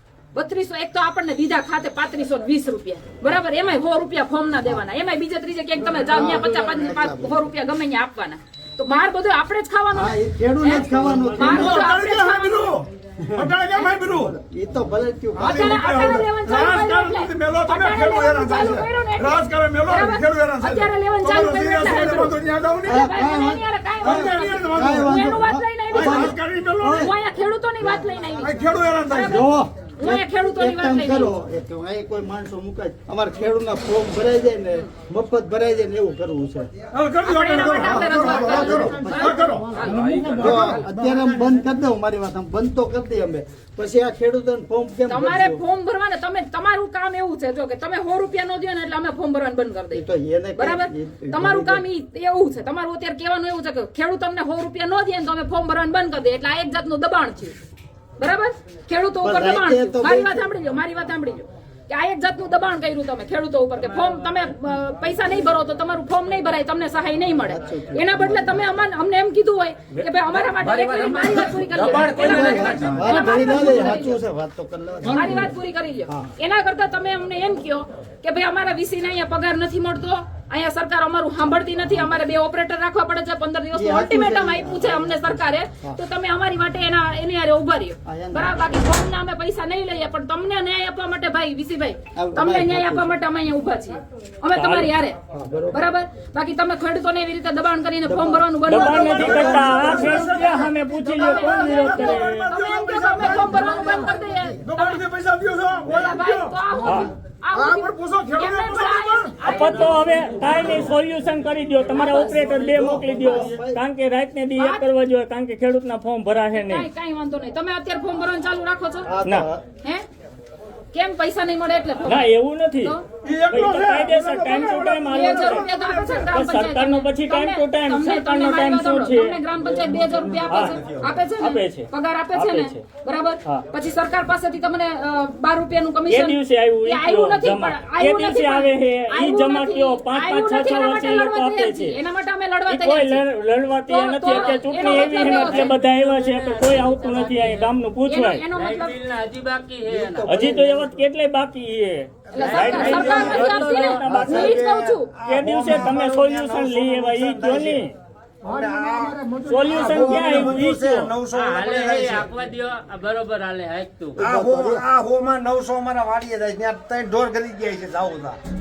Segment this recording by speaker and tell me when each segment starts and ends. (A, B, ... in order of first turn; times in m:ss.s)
0:00.3-0:12.8 A
0:05.9-0:07.4 B
0:09.9-0:11.9 B
0:11.3-0:14.3 C
0:14.1-0:15.8 B
0:15.3-0:23.0 C
0:15.4-0:22.3 A
0:22.8-0:27.1 B
0:22.9-0:31.4 A
0:24.0-0:25.4 C
0:25.9-0:27.1 C
0:28.4-0:29.5 C
0:29.2-0:36.7 B
0:36.9-0:39.7 C
0:37.2-0:40.9 A
0:37.7-0:45.6 B
0:39.8-0:40.8 D
0:45.1-0:50.0 A
0:49.9-0:51.8 B
0:50.6-0:57.6 A
0:58.2-1:14.2 A
0:59.2-1:00.5 B
1:07.4-1:08.7 B
1:09.9-1:13.7 D
1:12.0-1:15.5 B
1:15.1-1:35.2 A
1:23.7-1:26.0 B
1:28.0-1:28.6 B
1:32.1-1:33.1 B
1:34.5-1:34.9 E
1:35.3-1:35.8 B
1:35.7-1:45.0 A
1:38.0-1:40.1 B
1:38.7-1:42.5 E
1:38.8-1:50.8 C
1:45.9-1:50.7 A
1:46.8-1:47.1 E
1:49.4-1:56.9 E
1:51.9-1:53.8 B
1:52.0-1:52.3 A
1:54.6-1:54.8 A
1:56.5-1:59.1 A
1:59.0-1:59.6 B
2:00.9-2:03.0 A
2:02.0-2:03.0 E
2:03.2-2:06.4 C
2:03.5-2:05.6 E
2:05.1-2:23.2 A
2:06.2-2:09.4 E
2:09.9-2:12.8 E
2:10.1-2:10.5 F
2:16.1-2:22.0 E
2:22.7-2:28.4 E
2:23.9-2:25.8 A
2:26.0-2:27.5 D
2:28.0-2:29.0 A
2:28.5-2:30.3 D
2:29.9-2:30.9 B
2:30.3-2:34.6 E
2:32.3-2:35.1 A
2:32.4-2:33.4 F
2:32.6-2:34.1 D
2:34.1-2:34.5 B
2:34.1-2:37.8 F
2:35.2-2:37.9 E
2:38.4-2:42.3 F
2:38.4-2:40.5 C
2:39.5-2:41.1 E
2:41.3-2:44.2 D
2:44.2-2:48.4 F
2:44.2-2:44.8 B